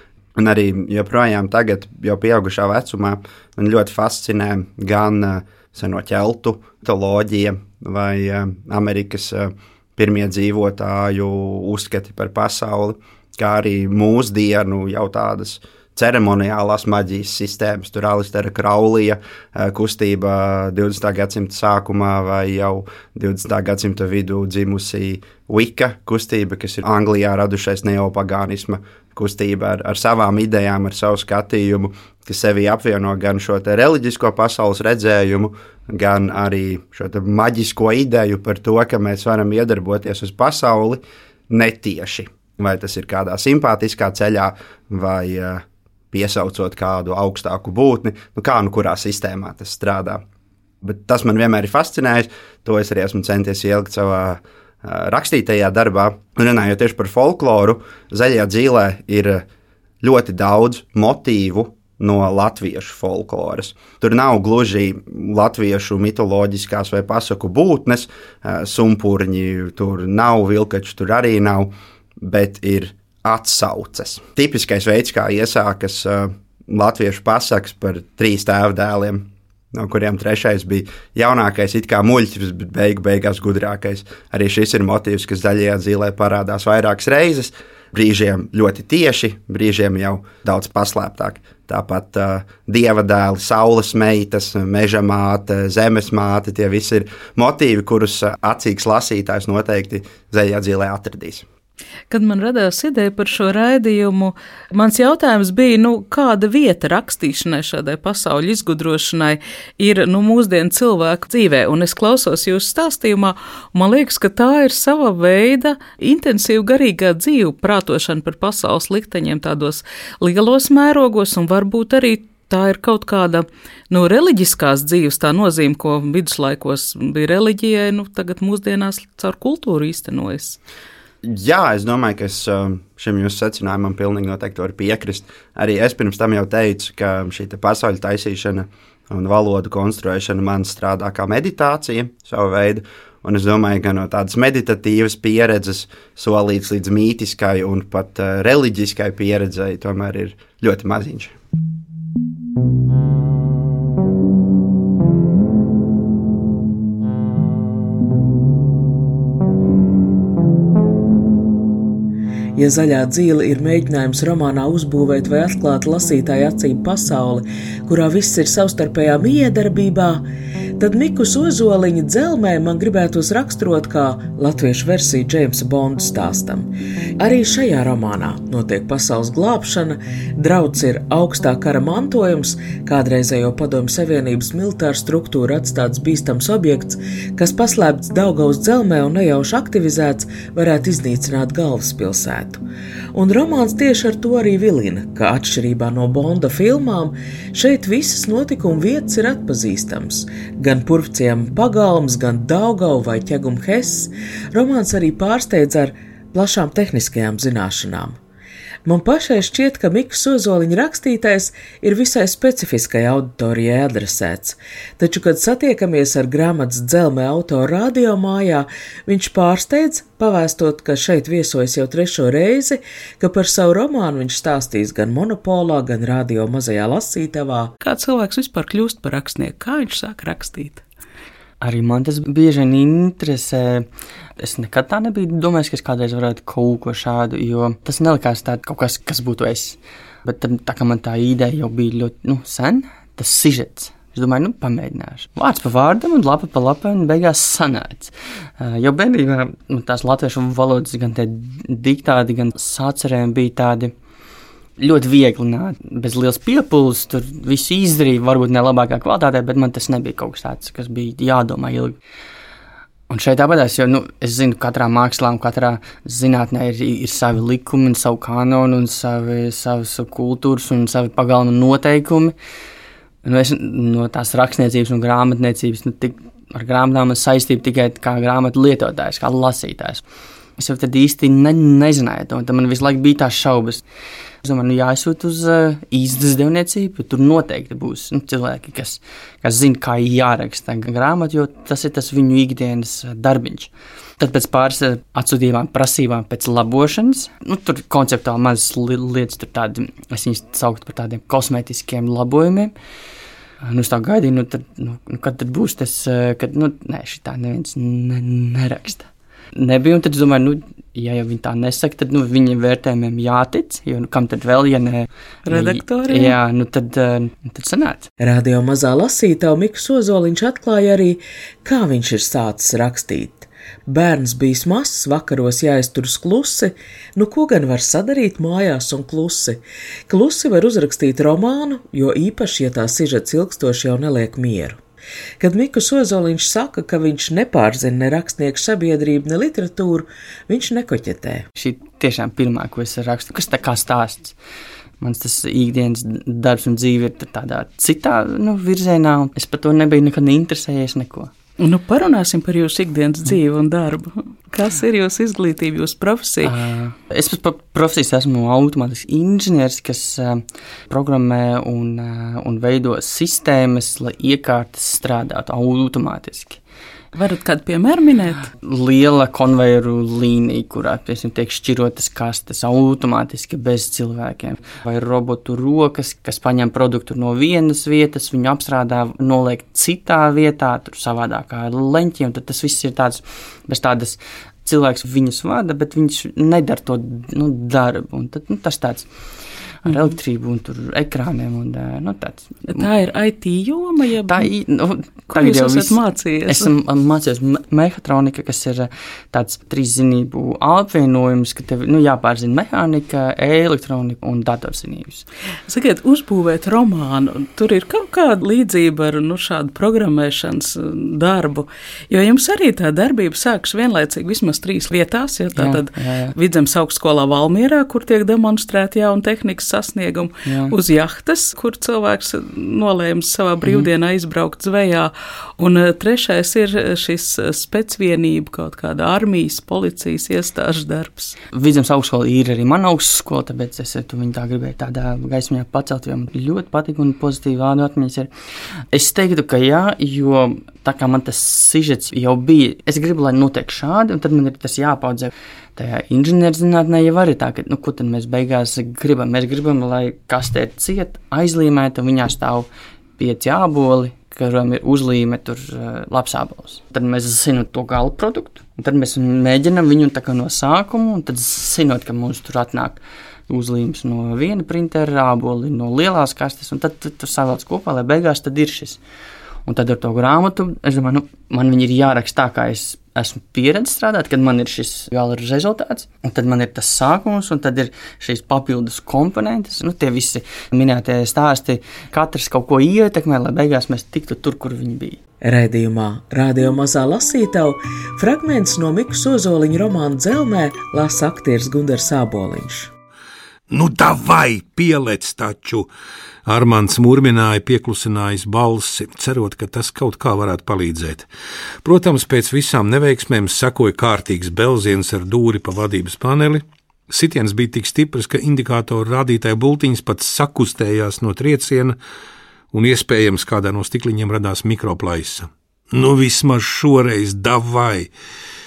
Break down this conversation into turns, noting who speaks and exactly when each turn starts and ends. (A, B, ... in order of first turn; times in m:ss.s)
0:00.4-0:41.0 A
0:41.5-0:50.2 A
0:50.8-0:59.4 A
1:00.0-1:41.5 A
1:42.1-2:10.6 B
2:11.2-2:31.4 A
2:42.6-2:50.2 C
2:50.8-2:56.7 C
2:57.2-3:12.6 C
3:13.1-3:28.2 C
3:28.9-3:47.8 C
3:47.8-3:50.8 B
3:51.6-3:53.9 D
3:54.4-4:13.9 D
4:14.8-4:22.0 D
4:23.1-4:32.3 D
4:33.2-4:40.0 D
4:40.6-4:43.8 D
4:44.4-5:02.7 D
5:03.7-5:18.1 D
5:15.5-5:16.4 B
5:18.2-5:34.8 C
5:35.4-5:41.5 C
5:41.6-5:44.4 D
5:45.0-5:51.3 D
5:51.6-5:56.6 B
5:56.4-6:06.6 D
6:07.1-6:08.5 B
6:08.6-6:29.1 D
6:29.8-6:32.9 D
6:32.7-6:34.5 B
6:34.3-6:45.2 D
6:35.3-6:36.7 B
6:45.7-7:11.4 B
6:55.6-6:56.3 D
7:00.5-7:00.7 D
7:11.5-7:18.3 D
7:18.9-7:49.0 D
7:49.7-8:05.2 D
8:05.4-8:12.9 C
8:13.7-8:15.9 E
8:16.4-8:21.3 E
8:21.8-8:32.0 E
8:32.7-8:38.1 E